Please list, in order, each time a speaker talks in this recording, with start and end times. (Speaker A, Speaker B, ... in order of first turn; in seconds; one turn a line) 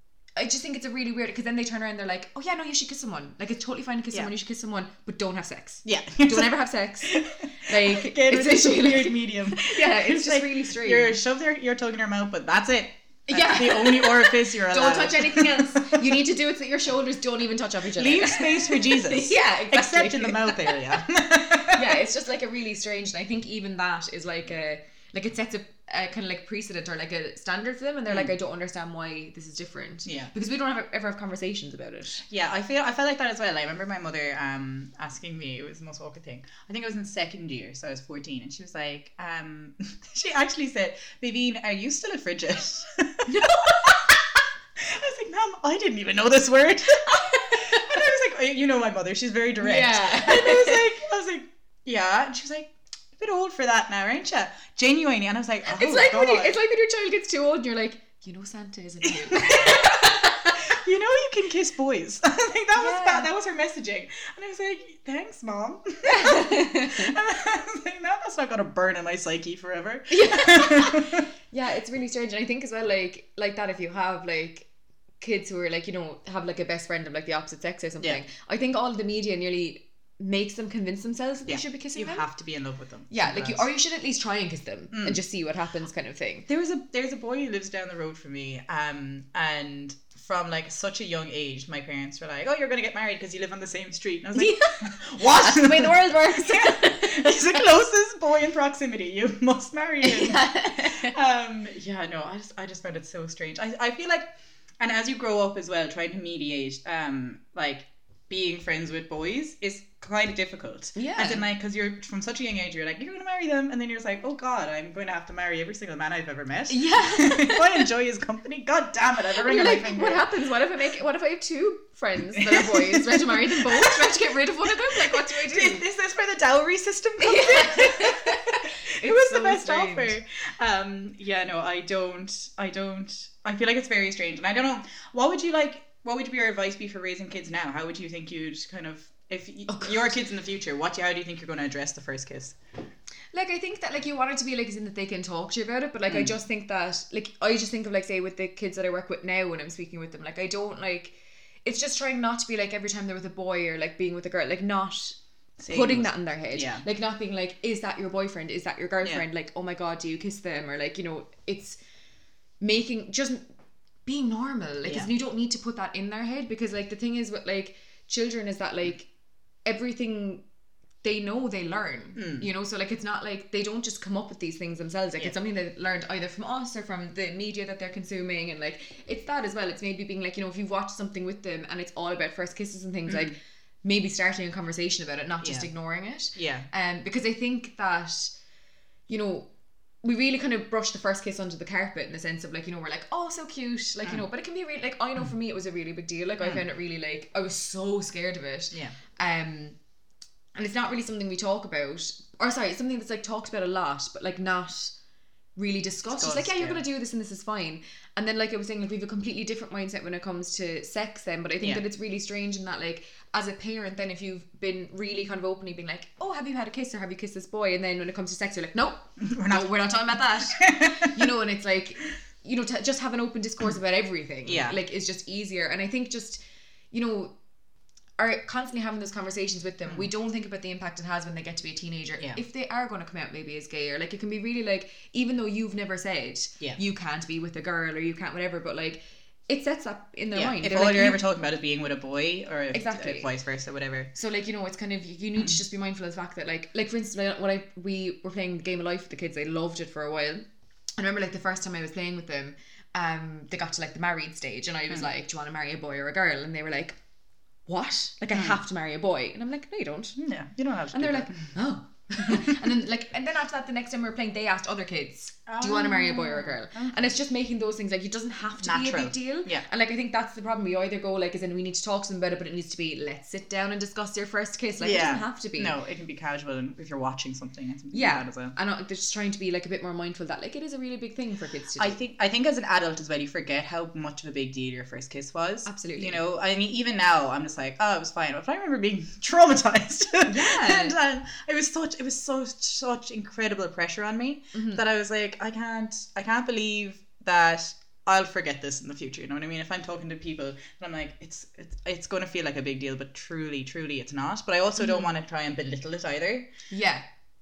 Speaker A: 0.3-11.2
Speaker B: 5.8-6.5
Speaker B: 7.0-16.0
Speaker A: 13.3-21.0
Speaker B: 17.9-22.0
Speaker A: 21.6-32.2
Speaker B: 28.1-28.3
Speaker B: 30.0-30.3
Speaker B: 32.2-44.0
Speaker A: 43.3-44.0
Speaker B: 44.8-56.6
Speaker A: 47.1-47.9
Speaker A: 49.6-50.9
Speaker A: 55.6-60.6
Speaker B: 59.0-60.1
Speaker B: 60.7-71.2
Speaker A: 62.7-63.3
Speaker A: 66.0-67.1
Speaker A: 70.1-74.7
Speaker A: 75.2-82.2
Speaker B: 81.5-83.7
Speaker A: 83.1-86.5
Speaker B: 84.9-85.2
Speaker B: 86.5-104.2
Speaker A: 94.3-97.6
Speaker A: 100.0-101.1
Speaker B: 104.8-120.3
Speaker A: 110.9-111.4
Speaker A: 116.7-117.8
Speaker A: 119.4-125.8
Speaker B: 122.3-124.2
Speaker B: 125.0-142.6
Speaker A: 127.2-130.2
Speaker A: 139.7-140.2
Speaker A: 143.3-155.2
Speaker B: 146.1-146.3
Speaker B: 155.6-156.8
Speaker A: 155.7-161.8
Speaker A: 162.6-163.4
Speaker A: 164.1-169.1
Speaker A: 169.6-170.4
Speaker A: 171.0-188.4
Speaker B: 172.2-172.5
Speaker B: 183.1-183.3
Speaker B: 185.4-185.7
Speaker B: 186.3-186.7
Speaker A: 189.1-189.5
Speaker A: 190.0-199.8
Speaker A: 200.5-204.9
Speaker A: 205.6-227.3
Speaker B: 206.1-206.8
Speaker B: 219.2-219.7
Speaker B: 220.6-221.2
Speaker B: 224.4-224.8
Speaker A: 228.2-241.2
Speaker B: 240.3-244.1
Speaker A: 242.7-243.3
Speaker A: 244.1-250.5
Speaker A: 251.0-257.0
Speaker A: 257.6-260.2
Speaker B: 260.2-261.5
Speaker A: 260.9-275.8
Speaker B: 262.2-262.5
Speaker B: 265.5-267.1
Speaker B: 268.6-269.6
Speaker B: 274.8-278.6
Speaker A: 277.9-282.0
Speaker B: 281.8-306.5
Speaker A: 285.6-286.2
Speaker A: 290.2-290.9
Speaker A: 294.5-294.8
Speaker A: 304.8-305.1
Speaker A: 306.7-307.0